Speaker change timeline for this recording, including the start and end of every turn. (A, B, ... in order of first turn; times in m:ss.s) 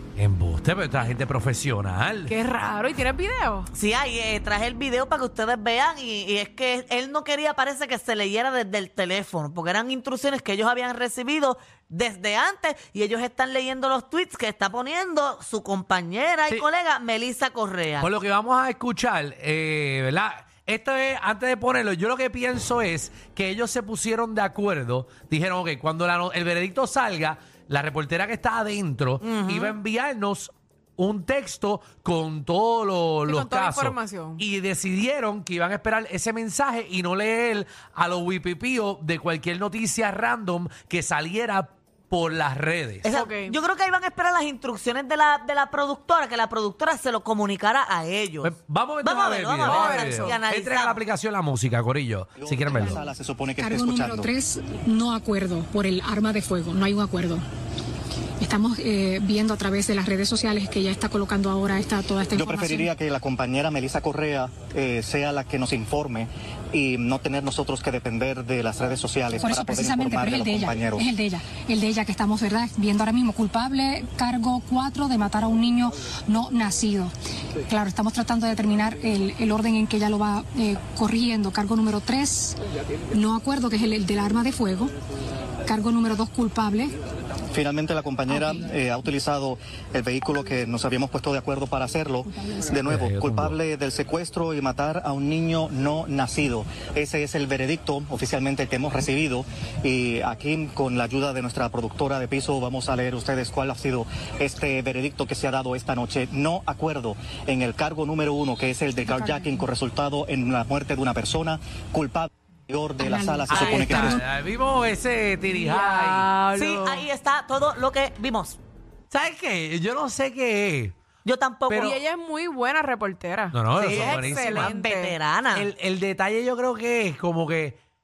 0:00.2-0:02.4 A
0:02.2-0:03.7 B
0:03.7-0:18.1 C
0:18.0-0:43.1 A
0:29.2-0:29.8 C
0:33.3-0:34.4 B
0:43.0-0:51.0 C
0:43.0-0:43.6 B
0:48.4-0:53.0 A
0:49.6-0:50.4 B
0:52.4-0:54.3 D
0:52.7-0:53.1 E
0:53.6-0:57.4 E
0:58.4-1:02.9 E
1:02.3-1:11.0 D
1:09.3-1:17.1 E
1:17.7-1:22.6 E
1:23.1-1:24.9 E
1:25.6-1:26.9 E
1:27.5-1:54.2 D
1:28.3-1:28.7 E
1:32.8-1:33.6 A
1:49.0-1:49.6 E
1:53.0-1:54.2 E
1:53.5-1:56.3 A
1:55.4-1:57.1 B
1:56.5-1:58.6 C
1:59.1-2:01.0 A
2:01.2-2:02.0 C
2:01.7-2:01.9 A
2:01.8-2:05.2 B
2:03.5-2:04.7 A
2:03.8-2:05.7 C
2:05.5-2:07.8 A